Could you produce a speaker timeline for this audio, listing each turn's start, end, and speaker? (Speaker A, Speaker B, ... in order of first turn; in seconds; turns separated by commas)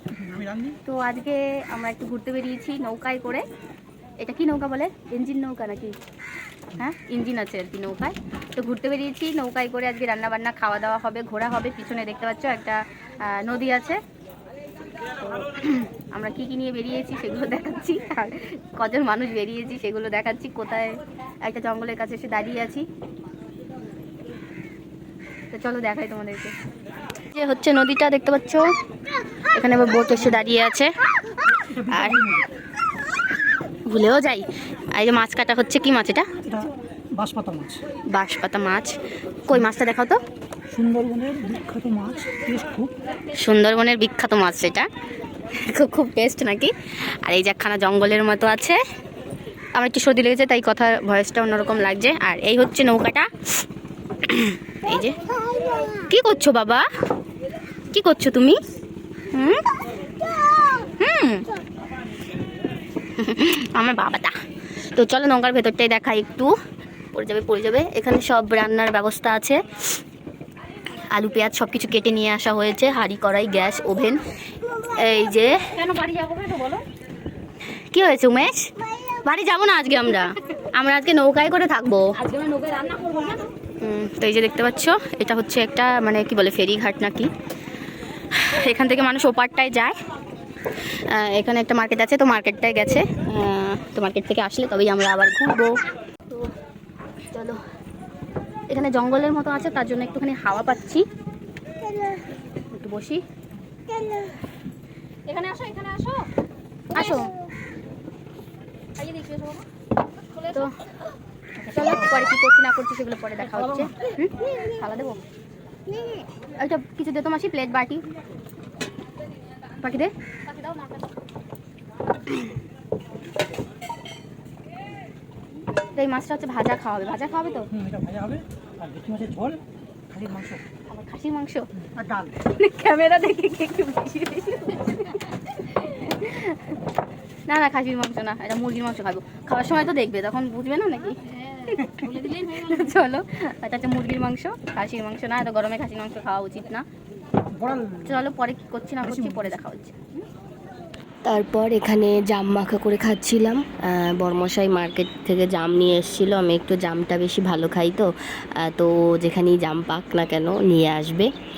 Speaker A: 0.2-0.8, Speaker B: 0.8-3.4, Speaker B: 4.2-6.0, Speaker B: 6.7-14.0, Speaker B: 15.2-22.9, Speaker B: 25.5-26.5, Speaker B: 27.3-28.7, Speaker B: 29.5-30.9, Speaker A: 31.6-32.4, Speaker B: 31.8-32.2, Speaker B: 33.9-36.3, Speaker A: 36.4-37.8, Speaker B: 38.1-40.2, Speaker A: 40.7-42.9, Speaker B: 43.3-44.9, Speaker B: 45.5-48.8, Speaker B: 49.7-53.3, Speaker B: 54.2-55.2, Speaker B: 56.1-56.9, Speaker B: 57.9-58.6, Speaker B: 59.3-59.6, Speaker B: 61.0-61.5, Speaker B: 63.1-66.5, Speaker B: 67.1-69.8, Speaker B: 71.0-74.2, Speaker B: 74.8-76.8, Speaker A: 76.1-76.5, Speaker B: 77.9-87.3, Speaker A: 82.4-83.3, Speaker B: 88.3-90.0, Speaker B: 90.8-96.5, Speaker B: 97.2-97.6, Speaker B: 98.7-101.0, Speaker B: 102.7-103.2, Speaker B: 105.2-106.2, Speaker B: 106.9-107.4, Speaker B: 109.0-109.6, Speaker A: 109.2-109.6, Speaker B: 110.3-110.8, Speaker B: 111.6-115.2, Speaker B: 116.5-118.0, Speaker B: 119.8-120.1, Speaker A: 120.6-121.0, Speaker B: 126.0-127.7, Speaker A: 127.7-130.6, Speaker B: 130.9-131.7, Speaker A: 131.8-132.3, Speaker B: 132.4-136.8, Speaker B: 137.5-146.8, Speaker A: 147.5-148.1, Speaker B: 148.0-150.0, Speaker A: 149.2-149.5, Speaker C: 151.2-161.3